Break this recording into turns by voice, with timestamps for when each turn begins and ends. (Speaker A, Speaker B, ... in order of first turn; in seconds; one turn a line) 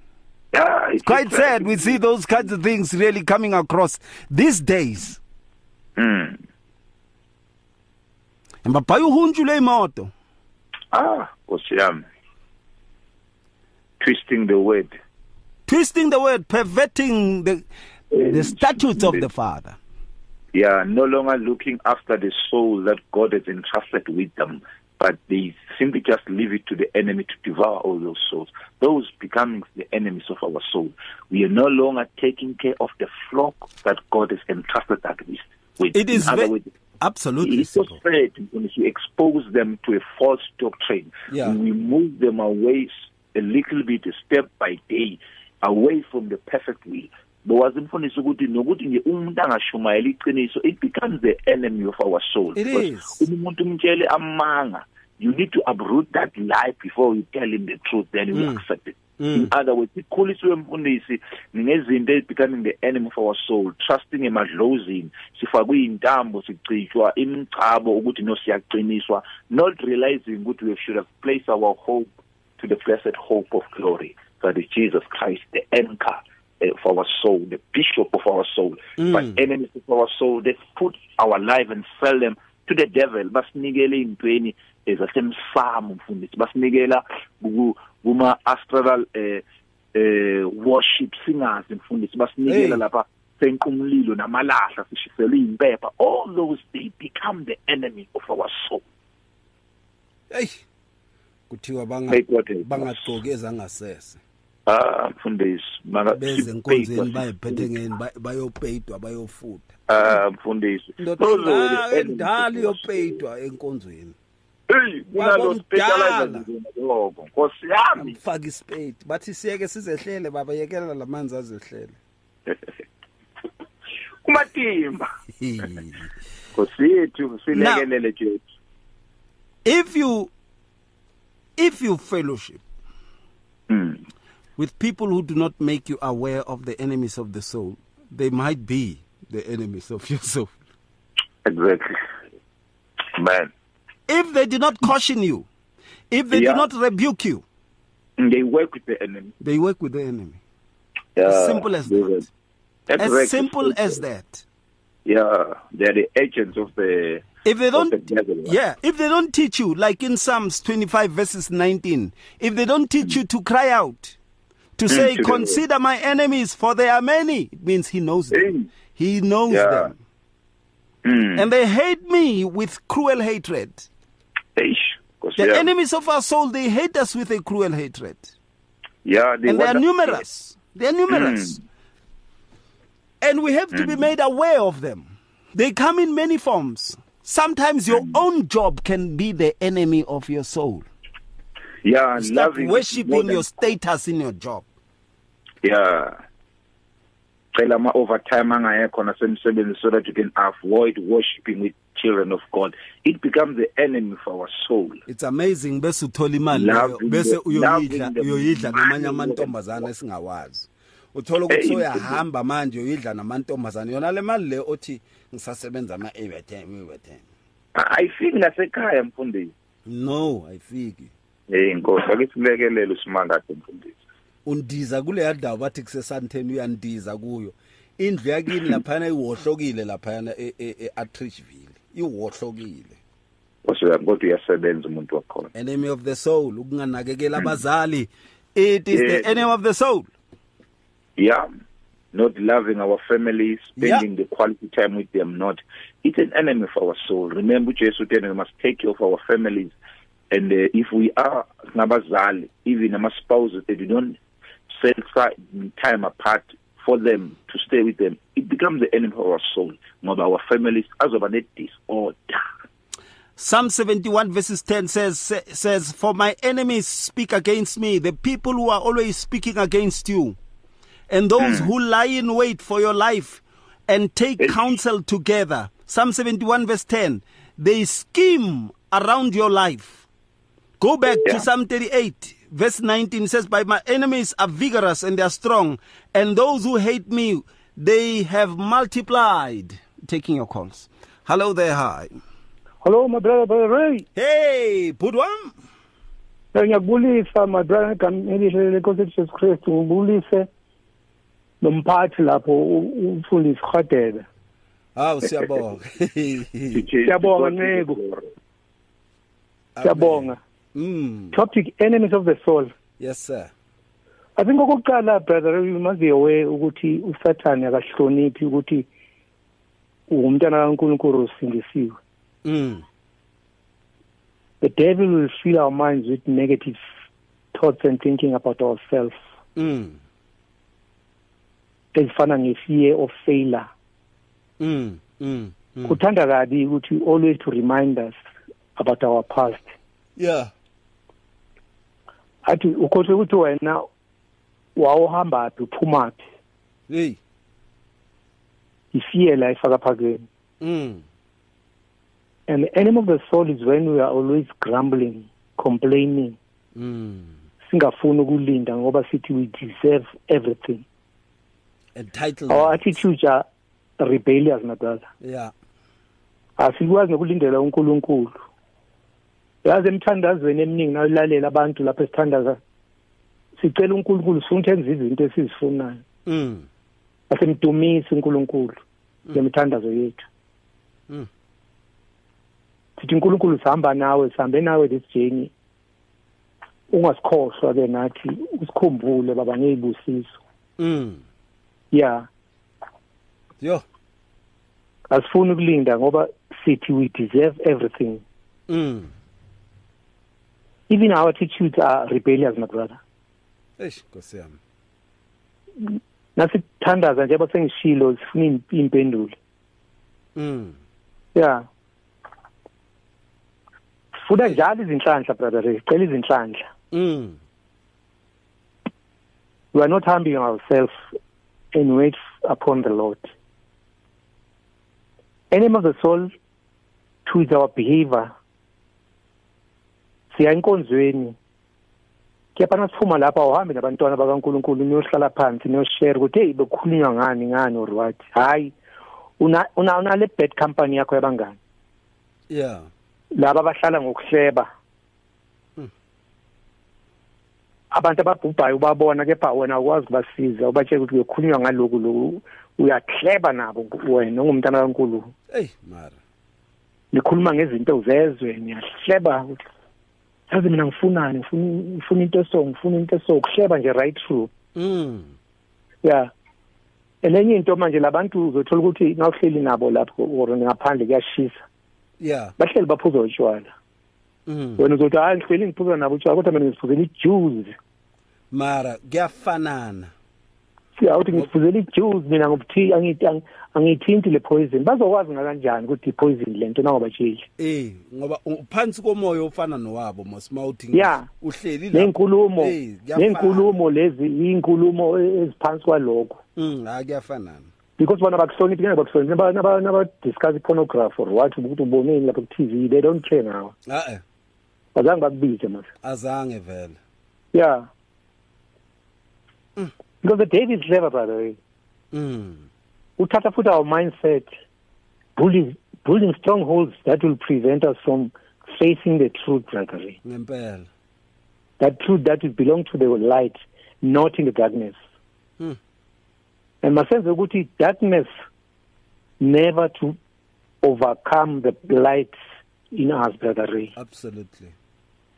Speaker A: 0.5-2.0
Speaker B: 1.0-5.2
Speaker A: 6.0-6.4
Speaker B: 8.6-10.1
Speaker A: 10.9-12.0
Speaker A: 14.0-14.9
Speaker B: 15.7-19.8
Speaker A: 18.1-19.2
Speaker A: 20.5-36.7
Speaker B: 35.9-38.0
Speaker A: 37.4-72.1
Speaker B: 41.3-41.6
Speaker B: 52.5-53.3
Speaker B: 58.3-58.6
Speaker B: 59.2-59.5
Speaker A: 72.6-89.4
Speaker B: 79.0-79.4
Speaker A: 89.9-98.8
Speaker B: 92.5-92.8
Speaker B: 100.3-100.6
Speaker B: 101.5-104.2
Speaker A: 102.1-103.1
Speaker A: 104.7-107.7
Speaker B: 106.1-109.8
Speaker A: 109.9-113.2
Speaker B: 111.0-114.1
Speaker A: 114.7-118.2
Speaker B: 115.2-116.4
Speaker B: 118.0-122.0
Speaker A: 124.2-125.0
Speaker B: 125.4-126.1
Speaker A: 126.5-128.4
Speaker B: 127.5-127.9
Speaker B: 129.6-130.3
Speaker B: 131.6-132.6
Speaker A: 133.7-134.0
Speaker B: 134.6-140.6
Speaker A: 141.4-142.0
Speaker A: 143.1-143.5
Speaker B: 144.1-145.5
Speaker B: 146.1-147.4
Speaker A: 146.3-146.7
Speaker A: 148.2-149.3
Speaker B: 149.4-150.4
Speaker A: 151.2-152.2
Speaker B: 151.2-152.3
Speaker A: 152.9-154.0
Speaker B: 153.0-154.4
Speaker A: 155.1-158.6
Speaker B: 157.4-164.2
Speaker B: 164.8-169.9
Speaker A: 164.9-165.6
Speaker A: 168.3-168.7
Speaker A: 169.5-169.9
Speaker A: 171.0-171.4
Speaker B: 171.3-173.9
Speaker A: 174.6-175.7
Speaker B: 175.4-178.3
Speaker A: 179.0-180.2
Speaker B: 179.4-181.6
Speaker A: 181.1-181.6
Speaker B: 183.2-190.8
Speaker A: 183.7-184.0
Speaker A: 187.9-188.2
Speaker A: 191.8-193.4
Speaker B: 192.2-194.7
Speaker A: 195.6-196.2
Speaker A: 197.5-205.0
Speaker B: 205.1-217.2
Speaker A: 206.5-209.5
Speaker A: 211.5-212.2
Speaker A: 217.7-219.5
Speaker B: 219.8-221.1
Speaker A: 221.5-224.0
Speaker B: 224.4-233.0
Speaker A: 233.6-235.5
Speaker B: 235.5-240.1
Speaker A: 238.9-239.4
Speaker A: 241.2-241.4
Speaker A: 242.1-249.7
Speaker B: 243.8-244.0
Speaker A: 250.3-254.2
Speaker A: 254.7-262.5
Speaker B: 263.4-270.4
Speaker B: 271.1-280.1
Speaker A: 271.4-271.7
Speaker B: 280.8-292.1
Speaker A: 281.1-281.4
Speaker C: 292.8-294.0
Speaker B: 294.1-295.5
Speaker C: 296.5-300.5
Speaker C: 301.6-304.2
Speaker B: 304.9-306.9
Speaker A: 306.7-308.3
Speaker C: 307.0-308.0
Speaker B: 309.8-311.4
Speaker C: 309.8-310.4
Speaker C: 311.3-312.7
Speaker B: 313.0-313.5
Speaker C: 314.4-318.9
Speaker C: 320.1-322.0
Speaker B: 322.4-322.8
Speaker C: 324.6-326.8
Speaker C: 327.5-329.2
Speaker B: 329.6-330.0
Speaker C: 331.9-333.7
Speaker B: 334.6-336.0
Speaker C: 335.9-338.2
Speaker C: 338.8-339.7
Speaker B: 340.2-340.5
Speaker C: 342.4-343.9
Speaker C: 344.8-346.2
Speaker B: 346.9-347.2
Speaker C: 348.9-350.2
Speaker B: 350.6-351.0
Speaker C: 352.5-356.4
Speaker B: 356.7-357.4
Speaker C: 357.6-360.8
Speaker B: 361.9-363.0
Speaker C: 362.5-363.4
Speaker C: 364.0-365.1
Speaker B: 365.2-365.5
Speaker C: 366.6-368.4
Speaker C: 369.6-372.6
Speaker C: 373.6-376.0
Speaker B: 376.2-376.7
Speaker C: 377.3-378.8
Speaker C: 379.3-380.2
Speaker C: 383.0-385.5
Speaker C: 386.9-390.4
Speaker B: 390.8-391.2
Speaker C: 391.9-392.3
Speaker C: 395.1-398.2
Speaker B: 398.7-399.1
Speaker C: 400.9-403.0
Speaker B: 403.8-404.6
Speaker C: 406.4-409.4
Speaker B: 410.4-410.8
Speaker C: 411.3-411.6
Speaker C: 414.2-416.7
Speaker B: 416.9-417.4
Speaker C: 419.7-421.0
Speaker C: 421.7-423.3
Speaker C: 425.5-426.3
Speaker C: 427.2-428.3
Speaker C: 430.3-431.4
Speaker C: 432.5-438.7
Speaker C: 439.4-441.6
Speaker B: 442.5-442.9
Speaker C: 443.3-444.7
Speaker C: 447.9-455.3
Speaker B: 455.5-456.2
Speaker C: 457.1-459.6
Speaker C: 460.5-464.5
Speaker B: 464.7-465.3
Speaker C: 466.0-466.3
Speaker C: 467.2-471.6
Speaker B: 472.2-472.5
Speaker C: 472.6-473.7
Speaker B: 474.5-474.9
Speaker C: 474.8-477.7
Speaker B: 478.5-480.1
Speaker C: 481.0-487.4
Speaker B: 487.6-493.7
Speaker C: 490.9-491.3
Speaker C: 491.9-496.4
Speaker B: 496.6-497.7
Speaker C: 498.0-503.7
Speaker B: 503.9-504.2
Speaker C: 504.9-505.9
Speaker B: 506.0-507.0
Speaker C: 507.5-507.9
Speaker C: 510.2-511.6
Speaker B: 512.1-512.6
Speaker C: 513.2-514.5
Speaker C: 515.4-520.2
Speaker B: 520.2-520.9
Speaker C: 521.8-525.0
Speaker C: 526.8-528.3
Speaker C: 529.4-530.2
Speaker C: 530.8-532.4
Speaker C: 532.9-533.9
Speaker B: 533.9-534.7